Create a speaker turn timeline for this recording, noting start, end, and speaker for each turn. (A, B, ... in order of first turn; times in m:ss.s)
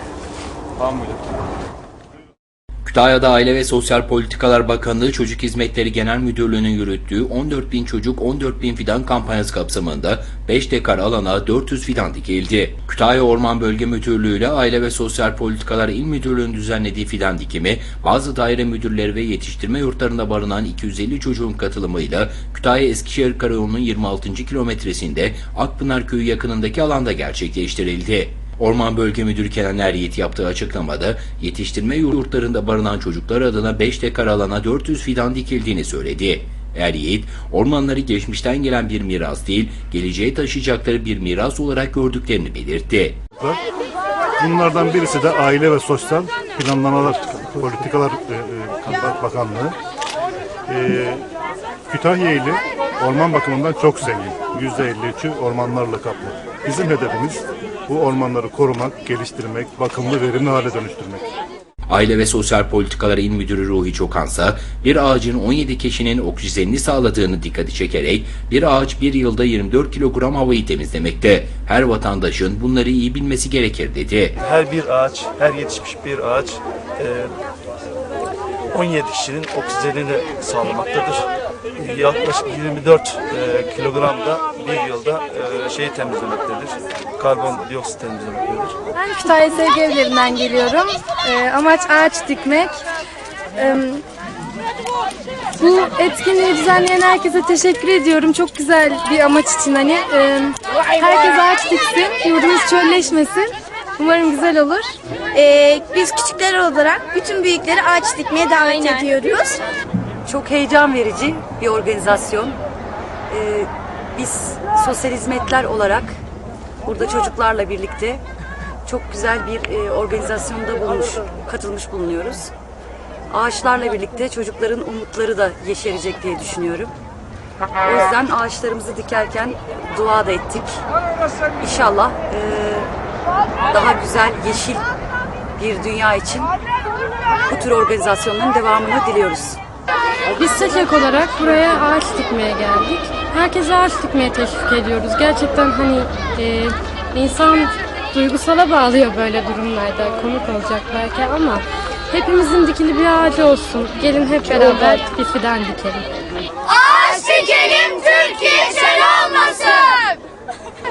0:02.8-0:43.2 A
0:44.4-0:49.7 B
0:50.7-0:51.2 B
0:51.9-1:01.3 B
1:01.9-1:14.3 A
1:14.4-1:17.3 C
1:18.7-1:28.7 C
1:29.0-1:32.8 D
1:33.6-1:34.0 D
1:35.6-1:44.9 D
1:45.3-1:49.6 E
1:50.3-1:52.5 F
1:53.3-1:56.1 F
1:56.9-1:58.2 F
1:58.9-2:02.5 F
2:03.3-2:06.9 F
2:07.8-2:10.7 F
2:11.6-2:12.9 F
2:13.7-2:14.8 F
2:15.6-2:16.5 F
2:17.5-2:19.5 F
2:20.4-2:36.0 D
2:37.0-2:37.6 E